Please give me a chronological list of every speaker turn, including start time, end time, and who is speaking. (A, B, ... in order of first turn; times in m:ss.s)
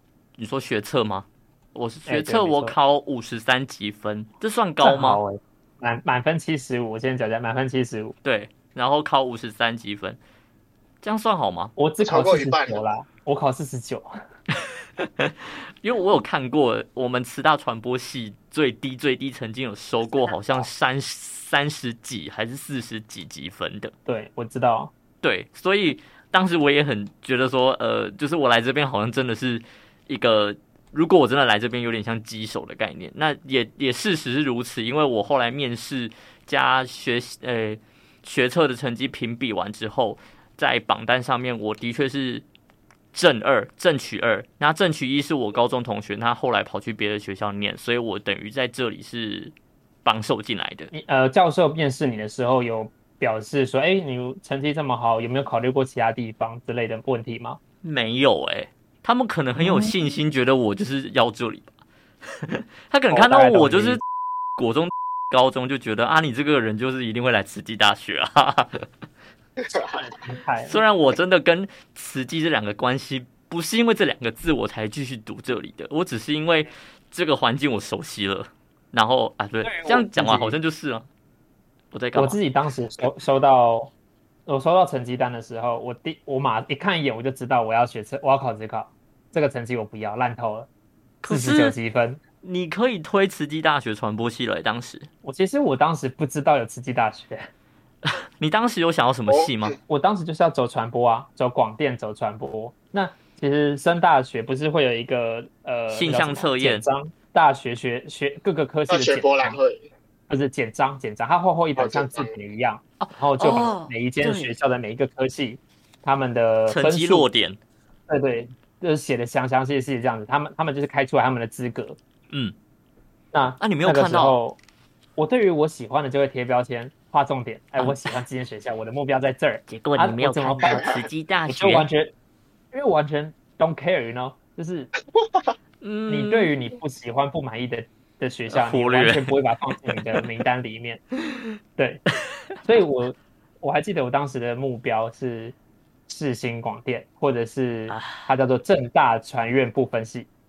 0:00.4-0:05.2 A
0:02.1-0:02.8 B
0:04.8-0:08.2 B
0:08.2-0:10.2 A
0:11.0-0:11.7 A
0:11.8-0:14.1 B
0:12.0-0:12.8 C
0:15.0-0:23.9 A
0:24.1-0:24.9 B
0:25.2-0:42.4 A
0:43.1-0:49.5 A
0:50.0-0:50.9 A
0:50.9-0:57.6 B
0:57.8-1:01.7 A
0:59.6-0:59.9 B
1:02.2-1:04.0 A
1:03.1-1:04.0 B
1:04.6-1:08.9 A
1:09.6-1:09.9 C
1:09.8-1:10.8 B
1:10.6-1:21.1 A
1:19.6-1:20.6 B
1:21.9-1:22.4 A
1:22.2-1:23.9 B
1:24.5-1:30.7 B
1:31.2-1:31.8 A
1:31.3-1:32.2 B
1:32.4-1:35.1 A
1:35.2-1:37.5 B
1:38.0-1:39.8 A
1:39.3-1:39.8 C
1:39.9-1:49.6 B
1:45.9-1:46.8 A
1:48.9-1:49.9 C
1:50.3-1:57.3 B
1:51.8-1:52.3 C
1:53.0-1:54.5 A
1:56.7-1:57.6 A
1:58.1-2:02.0 B
2:02.3-2:02.6 A
2:03.3-2:04.6 B
2:03.6-2:04.4 A
2:05.2-2:11.0 B
2:09.7-2:11.9 A
2:11.5-2:12.1 B
2:12.7-2:14.9 B
2:15.8-2:16.5 A
2:16.1-2:21.0 B
2:18.5-2:19.3 A
2:21.8-2:22.0 B
2:22.6-2:25.6 B
2:26.1-2:30.3 B
2:27.9-2:28.3 A